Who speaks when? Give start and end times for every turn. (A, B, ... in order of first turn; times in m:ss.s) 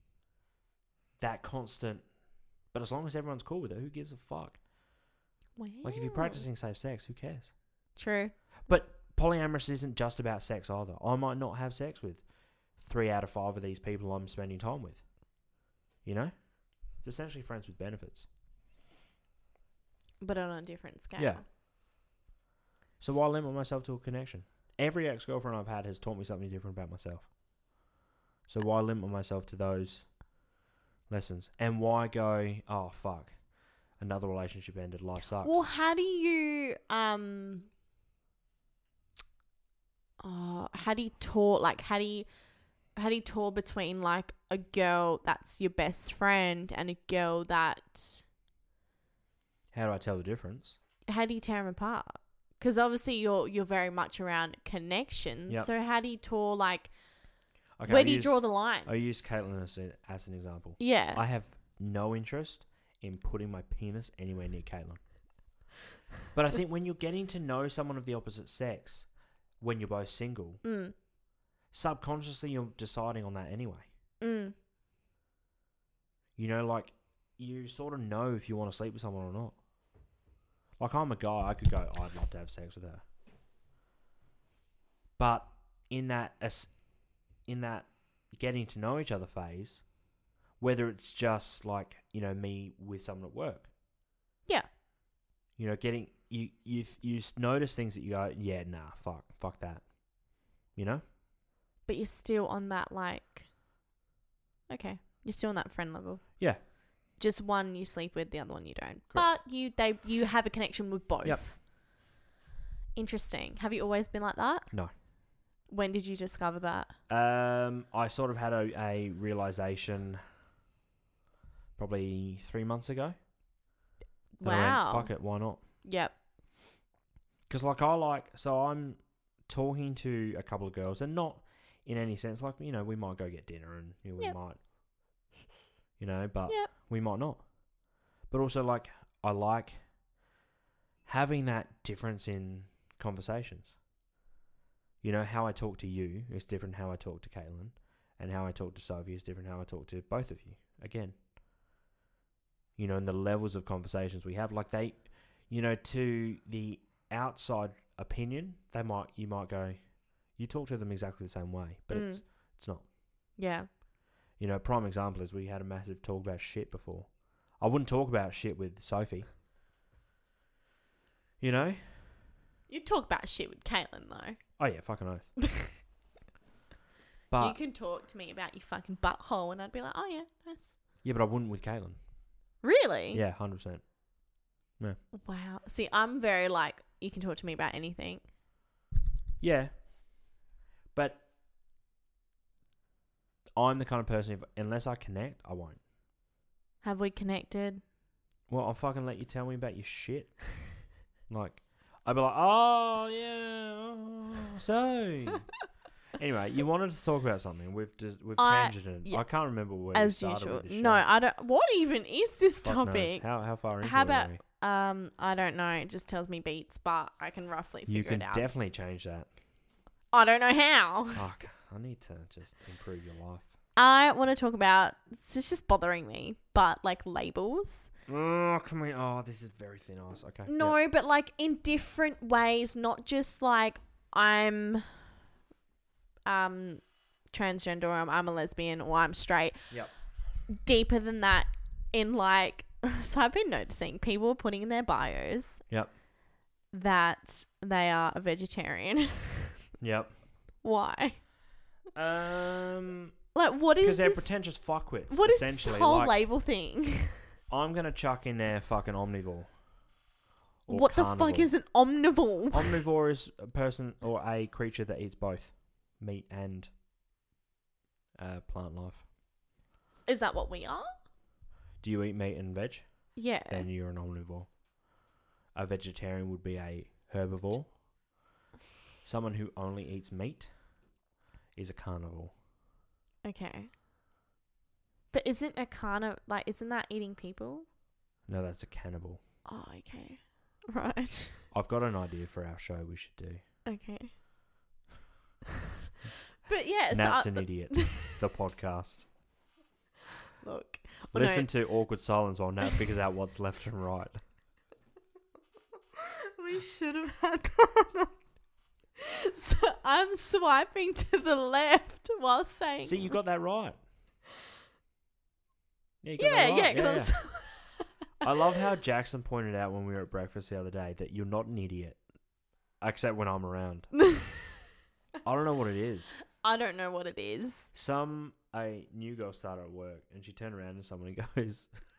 0:01.2-0:02.1 A
0:02.7-0:04.6 A
0:05.6-0:06.4 B
0:05.8-0:07.5 A
0:08.0-0:08.3 B
0:08.7-0:12.2 A
0:12.8-0:15.1 A
0:16.0-0:16.3 A
0:16.9-0:18.3 A
0:20.2-0:21.4 B
0:21.2-0:21.4 A
0:23.0-0:27.3 A
0:28.5-0:30.1 A
0:31.1-0:33.4 A
0:34.0-0:35.6 A
0:35.4-0:37.7 B
0:40.2-0:42.3 B
0:43.0-0:48.2 B
0:49.7-0:50.8 A
0:51.1-0:56.9 B
0:57.8-1:05.0 A
0:57.8-0:58.9 B
1:00.8-1:01.2 B
1:06.3-1:09.1 A
1:09.6-1:10.6 A
1:10.6-1:10.9 B
1:11.7-1:13.9 A
1:14.2-1:14.6 B
1:16.4-1:19.6 A
1:20.8-1:23.0 A
1:25.2-1:26.7 A
1:27.5-1:29.8 A
1:30.6-1:33.7 A
1:35.6-1:39.9 A
1:40.7-1:41.0 A
1:41.9-1:43.5 B
1:44.7-1:46.4 B
1:47.2-1:51.6 B
1:49.1-1:49.4 A
1:53.0-1:54.7 B
1:55.7-1:56.9 B
1:57.1-2:00.2 A
2:01.8-2:03.2 A
2:04.4-2:05.1 B
2:04.4-2:05.6 A
2:05.8-2:06.2 B
2:07.5-2:14.6 A
2:16.0-2:17.4 A
2:18.3-2:19.8 A
2:21.1-2:23.8 A
2:25.0-2:31.2 A
2:32.8-2:39.8 A
2:40.4-2:42.8 A
2:41.9-2:42.2 B
2:43.4-2:43.7 B
2:44.4-2:49.3 A
2:51.4-2:52.1 A
2:52.7-2:54.4 B
2:54.6-2:55.3 A
2:57.3-2:57.6 A
2:57.4-3:00.8 B
3:01.0-3:02.0 A
3:02.6-3:03.2 B
3:03.1-3:03.8 A
3:05.1-3:08.2 B
3:09.4-3:09.7 A
3:10.9-3:11.2 A
3:13.6-3:15.8 A
3:16.8-3:17.8 B
3:18.5-3:20.7 A
3:21.3-3:25.5 A
3:26.2-3:31.0 A
3:28.4-3:29.2 B
3:29.9-3:33.2 B
3:32.6-3:34.4 A
3:33.8-3:38.5 B
3:37.9-3:39.3 A
3:40.1-3:41.2 B
3:41.2-3:43.5 A
3:43.8-3:47.9 B
3:48.1-3:50.8 A
3:50.5-3:54.9 B
3:56.3-3:59.6 B
4:00.5-4:05.6 B
4:06.7-4:09.6 B
4:09.8-4:10.1 A
4:10.6-4:11.2 B
4:12.0-4:13.1 A
4:13.3-4:14.3 B
4:13.8-4:16.2 A
4:15.1-4:17.2 B
4:17.5-4:19.5 A
4:20.7-4:21.5 A
4:20.7-4:22.8 B
4:22.5-4:26.7 A
4:28.2-4:29.0 A
4:30.1-4:30.9 B
4:31.8-4:32.9 A
4:33.2-4:33.7 B
4:33.5-4:34.5 A
4:35.6-4:37.7 A
4:39.0-4:40.5 A
4:41.6-4:42.3 A
4:43.2-4:43.7 B
4:45.1-4:47.7 B
4:48.3-4:49.2 A
4:49.5-4:51.4 B
4:51.5-4:53.4 A
4:53.7-4:54.1 B
4:56.4-4:58.2 B
4:56.9-4:59.1 A
5:00.4-5:01.5 B
5:01.1-5:04.2 A
5:06.0-5:08.1 B
5:09.0-5:13.2 B
5:12.8-5:13.8 A
5:16.0-5:17.2 A
5:16.2-5:17.8 B
5:18.2-5:22.0 A
5:22.8-5:24.0 A
5:24.0-5:24.3 B
5:25.2-5:26.2 A
5:26.4-5:27.7 B
5:27.7-5:31.8 A